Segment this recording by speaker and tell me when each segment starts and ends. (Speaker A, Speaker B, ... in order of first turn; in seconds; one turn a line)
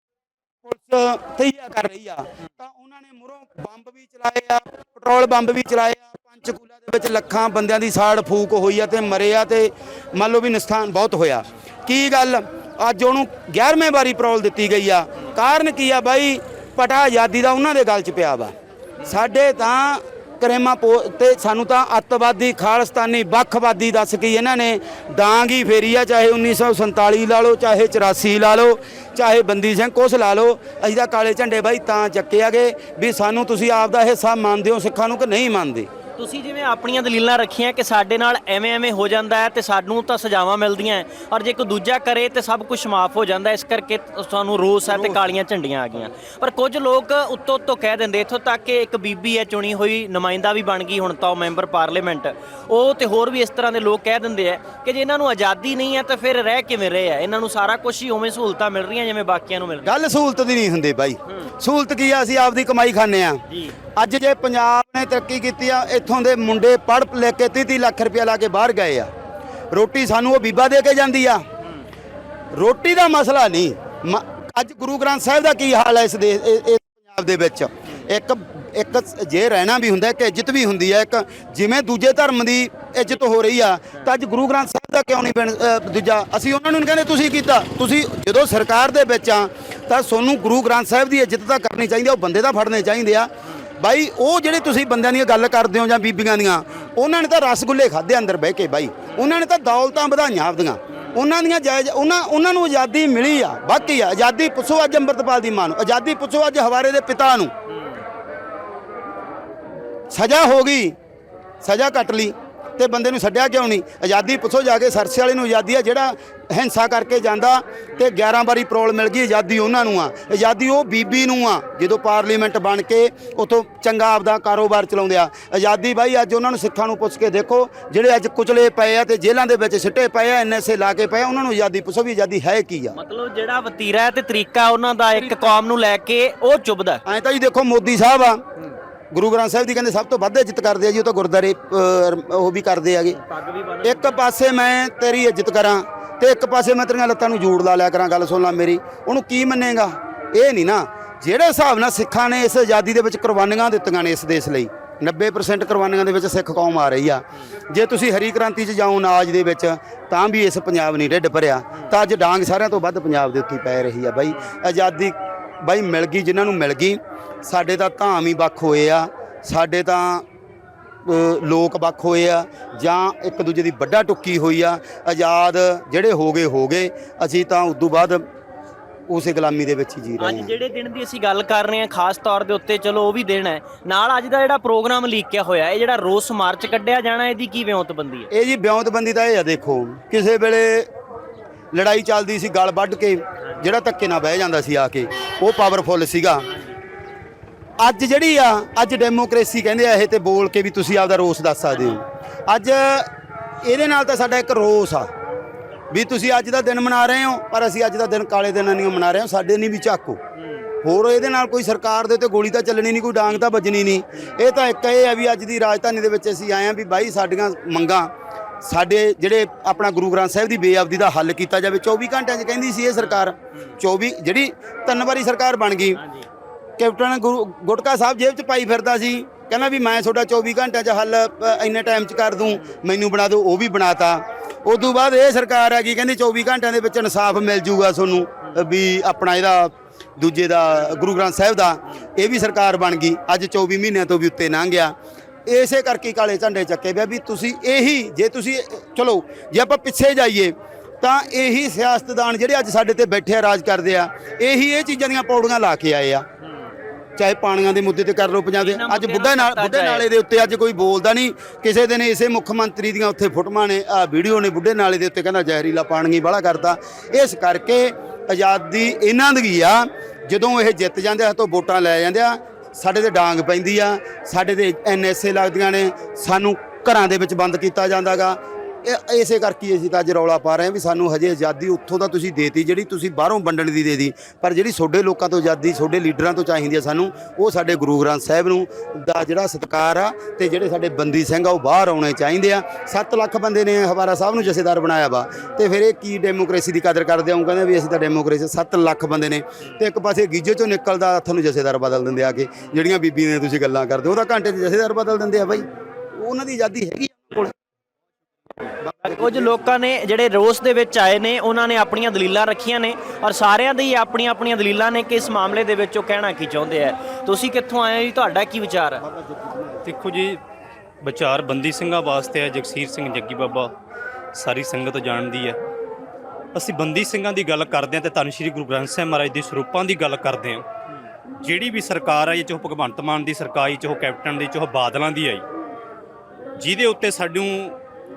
Speaker A: 0.6-35.9
Speaker B: 36.2-59.9
Speaker A: 44.9-45.3
Speaker A: 59.8-63.4
Speaker A: 64.0-69.1
Speaker A: 69.7-71.4
Speaker A: 72.5-107.5
Speaker B: 107.7-108.0
Speaker A: 110.1-111.0
Speaker A: 111.6-132.9
Speaker B: 132.9-137.0
Speaker A: 137.1-138.4
Speaker A: 139.1-143.2
Speaker B: 143.1-144.2
Speaker A: 143.8-170.2
Speaker A: 171.0-178.2
Speaker A: 179.1-180.5
Speaker B: 180.2-188.3
Speaker A: 188.3-190.9
Speaker A: 191.7-196.5
Speaker B: 193.4-193.7
Speaker B: 196.5-196.8
Speaker A: 197.8-203.1
Speaker A: 203.6-205.1
Speaker A: 205.9-210.2
Speaker A: 210.8-226.0
Speaker B: 223.0-223.8
Speaker B: 226.0-226.3
Speaker A: 226.8-244.9
Speaker B: 232.5-232.8
Speaker A: 245.5-256.3
Speaker A: 257.2-307.6
Speaker B: 258.6-260.1
Speaker A: 308.8-309.7
Speaker B: 309.0-319.0
Speaker A: 319.0-319.9
Speaker C: 319.8-320.4
Speaker C: 321.0-323.7
Speaker C: 324.3-325.6
Speaker C: 326.5-330.6
Speaker C: 331.4-335.4
Speaker C: 336.6-337.8